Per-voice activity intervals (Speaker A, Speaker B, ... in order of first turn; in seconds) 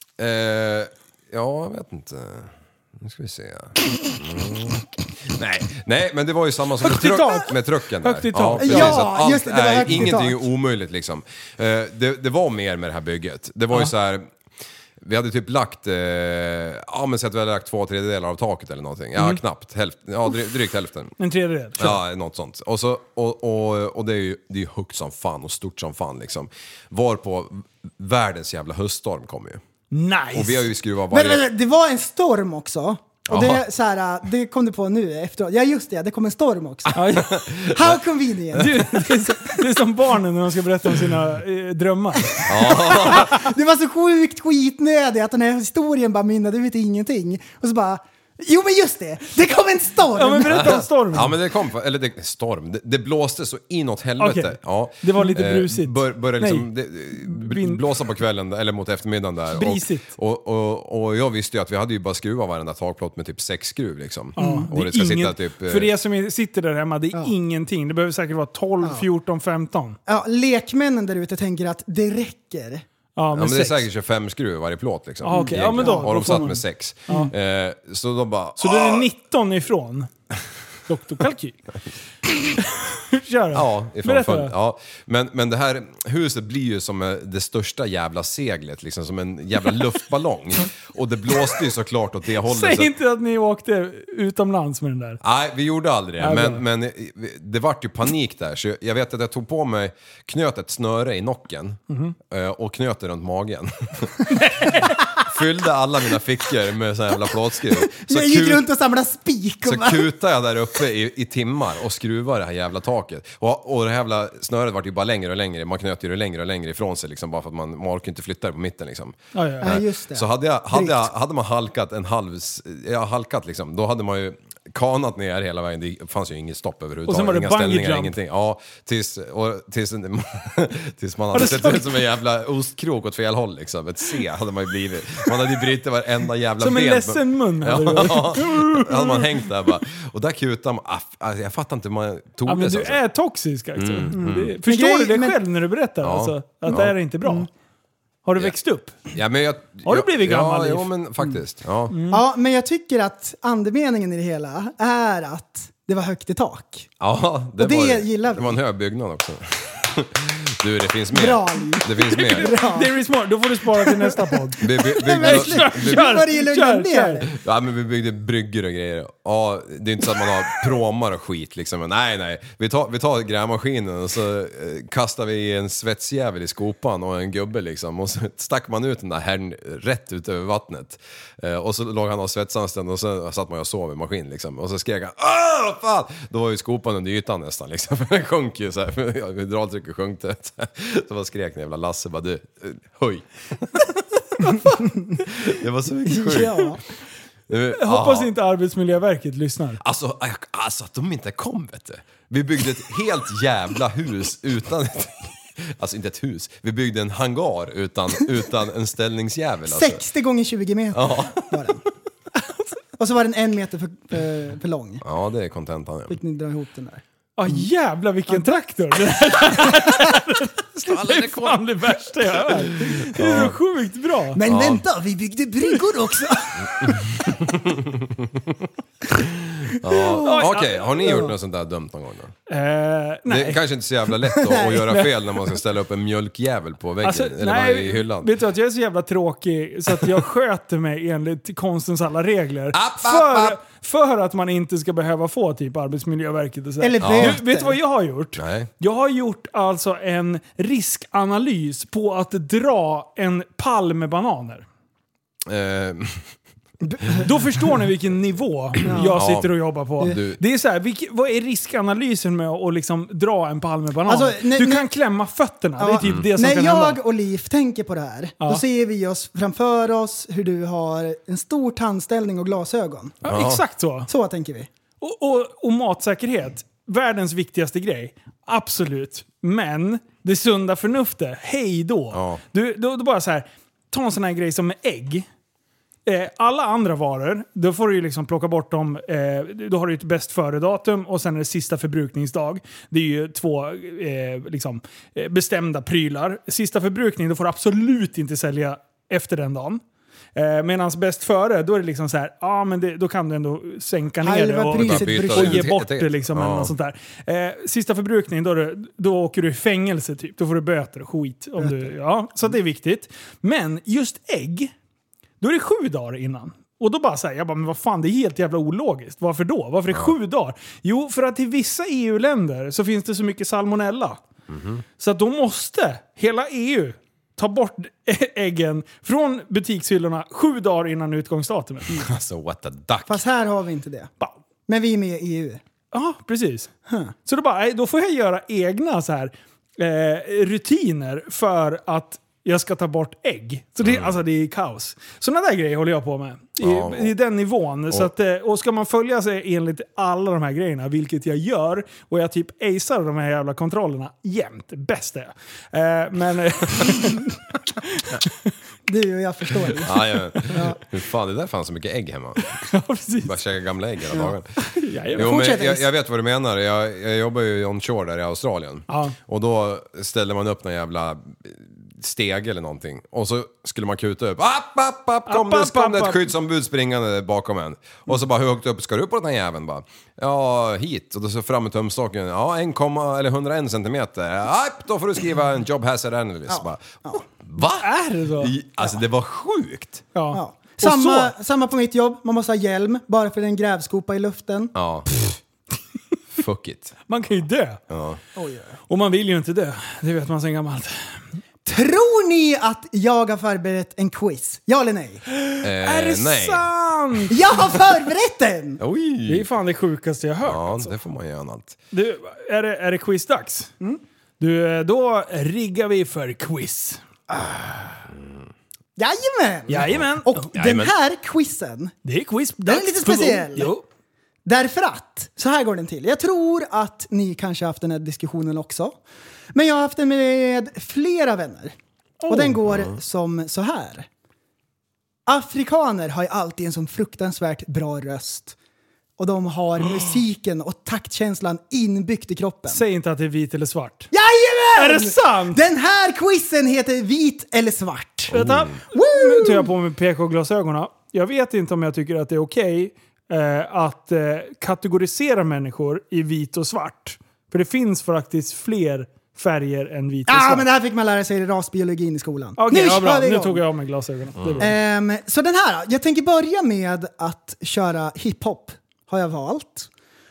Speaker A: 0.2-14.3, 15.0-21.1, 21.8-29.6, 30.3-31.4, 33.3-33.7, 37.0-38.0, 42.5-43.4, 50.5-65.9, 73.3-79.1, 83.5-92.9, 95.2-108.7, 109.7-143.0, 143.8-144.6, 146.0-146.9, 149.1-151.9, 157.0-162.5, 164.6-166.2, 167.3-193.8, 195.3-196.8, 197.5-198.3, 199.8-210.0, 210.9-211.5, 215.0-216.2, 220.8-223.6, 224.4-224.8, 226.6-228.5, 229.7-232.3, 233.3-238.3, 242.7-243.6, 247.0-247.4, 248.4-248.7, 255.5-256.4, 258.9-260.4, 273.2-273.6, 282.1-282.4, 304.7-306.7, 319.9-320.1, 324.5-324.8, 331.9-333.2, 343.8-344.2, 346.6-347.1, 359.8-362.6, 363.2-364.5, 365.1-390.0, 394.8-395.2, 396.4-396.9, 397.9-398.2, 405.6-406.7, 408.8-409.5, 410.4-411.8, 420.5-420.9, 448.3-448.8, 464.4-464.7
Speaker B: 6.8-9.1, 21.2-22.0, 29.9-30.7, 37.0-37.3, 38.5-43.1, 50.1-51.4, 54.2-57.8, 59.5-60.1, 64.4-70.0, 73.2-73.8, 75.2-77.3, 78.6-80.1, 80.9-81.6, 82.6-84.5, 92.5-95.2, 96.2-96.6, 101.9-102.2, 104.3-104.9, 119.3-119.8, 127.1-128.2, 131.3-131.9, 136.6-139.3, 142.5-147.5, 148.2-149.0, 149.8-150.9, 151.9-152.2, 162.1-167.2, 197.8-199.8, 217.4-224.4, 230.2-231.0, 232.5-233.6, 237.0-254.7, 257.2-267.0, 273.2-274.1, 275.0-285.3, 286.1-299.8, 300.4-314.7, 315.4-324.2, 325.0-331.9, 335.9-336.7, 337.2-357.2, 357.9-358.3, 362.5-363.4, 364.8-365.4, 368.9-369.1, 375.3-376.3, 387.8-388.6, 390.1-391.3, 397.1-397.8, 398.9-400.9, 405.3-407.4, 409.3-410.9, 411.9-413.7, 414.4-417.0, 419.7-420.4, 422.1-423.9, 432.2-432.6, 442.7-444.1, 444.8-445.6, 448.3-460.7, 462.6-464.7
Speaker C: 8.6-10.5, 31.1-37.0, 37.6-39.2, 42.6-50.8, 64.4-64.7, 70.1-72.8, 75.3-76.5, 107.7-110.1, 119.6-121.1, 144.2-145.4, 152.1-156.9, 157.6-158.6, 161.1-162.9, 163.7-167.3, 196.1-196.8, 209.7-211.8, 213.0-215.0, 216.1-217.0, 224.3-227.2, 229.9-230.2, 231.0-231.3, 234.4-235.0, 246.8-247.8, 256.9-257.2, 258.8-259.2, 264.1-264.9, 265.8-273.2, 274.1-274.7, 304.2-305.7, 311.6-311.9, 333.1-334.1, 334.7-335.6, 336.9-337.1, 358.9-360.8, 365.2-365.9, 386.5-387.2, 390.3-394.7, 398.4-398.8, 401.6-405.2, 407.3-408.8, 417.3-418.0, 419.0-421.9, 422.6-423.7, 424.4-429.0, 429.5-431.8, 432.3-434.1, 435.3-438.6, 439.2-442.8, 444.1-448.4, 448.9-449.7, 460.3-463.6, 464.6-469.9